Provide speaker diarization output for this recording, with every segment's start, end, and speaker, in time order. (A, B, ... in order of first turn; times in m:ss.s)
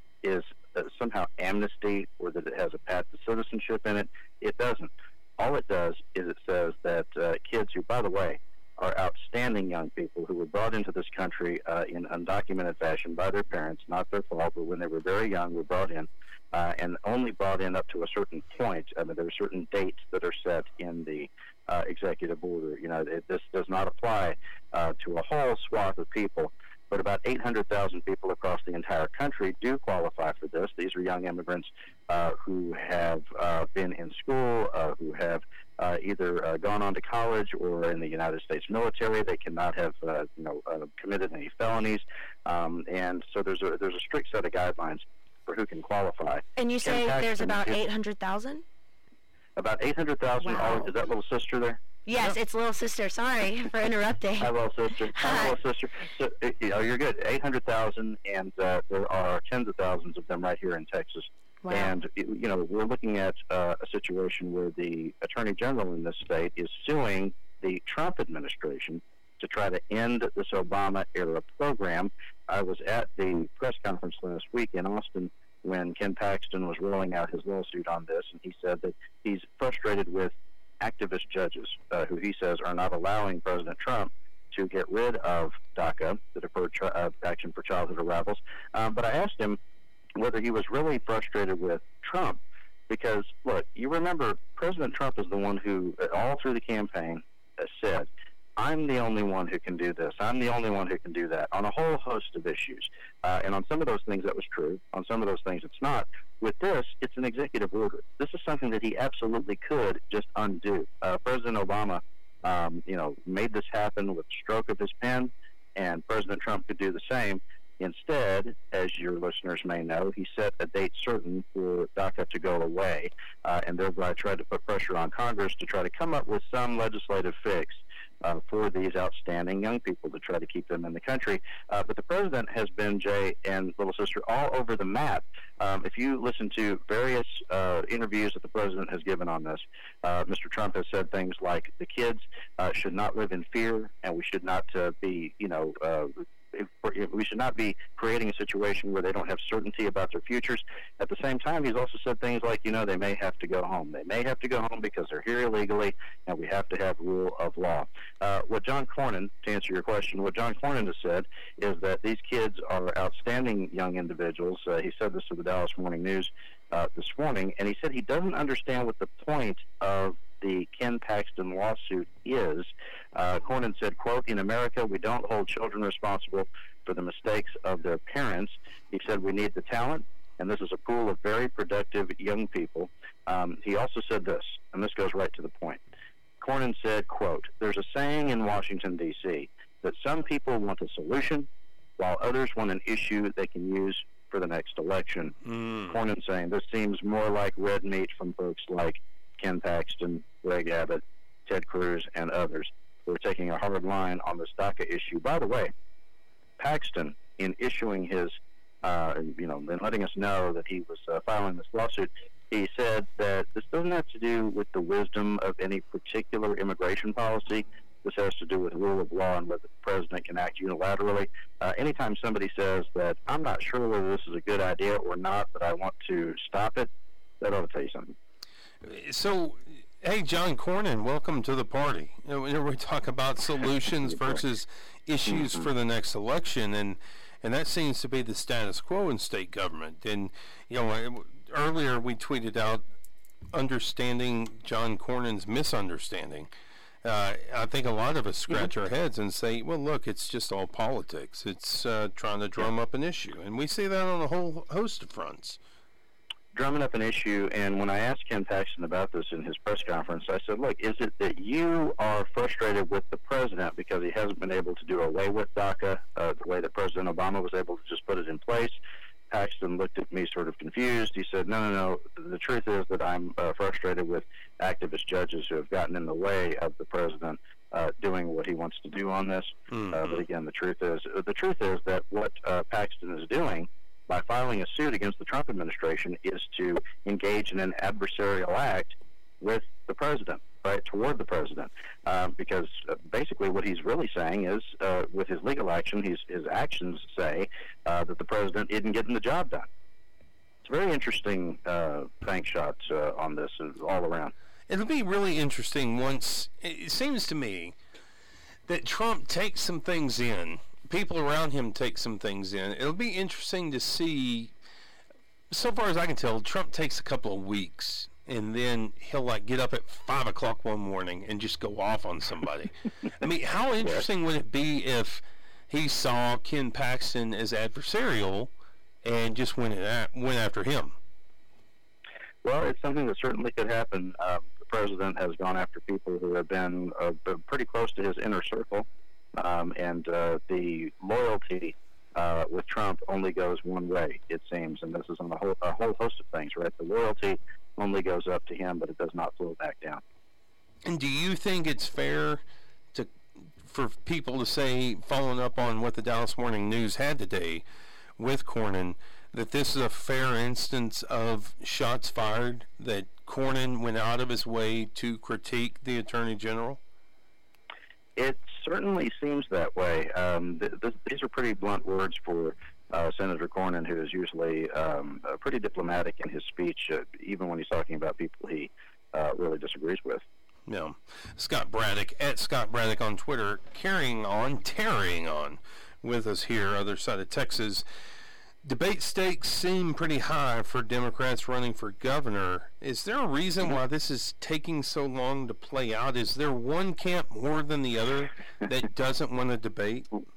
0:00.2-0:47.8 A
0:46.6-0:48.6 B
0:49.6-0:51.8 A
0:50.4-0:50.9 B
0:52.1-0:54.5 B
0:54.4-1:29.6 A
0:55.2-0:55.6 B
1:01.6-1:01.9 B
1:30.2-3:05.8 A
3:06.4-3:15.4 A
3:15.4-3:16.0 C
3:15.9-3:25.7 A
3:26.6-3:48.2 A
3:48.8-4:02.8 C
4:03.5-4:06.5 C
4:07.0-4:15.6 C
4:16.6-4:28.8 A
4:29.3-4:59.7 A
4:39.7-4:40.2 C
5:00.6-5:04.3 A
5:04.7-5:07.8 C
5:08.7-5:14.5 C
5:15.5-5:28.5 C
5:29.0-5:31.0 C
5:32.4-5:50.0 A
5:50.9-5:52.4 C
5:52.9-5:57.6 C
5:58.2-6:06.8 C
6:08.2-6:20.2 A
6:20.7-6:27.8 C
6:28.6-6:40.1 C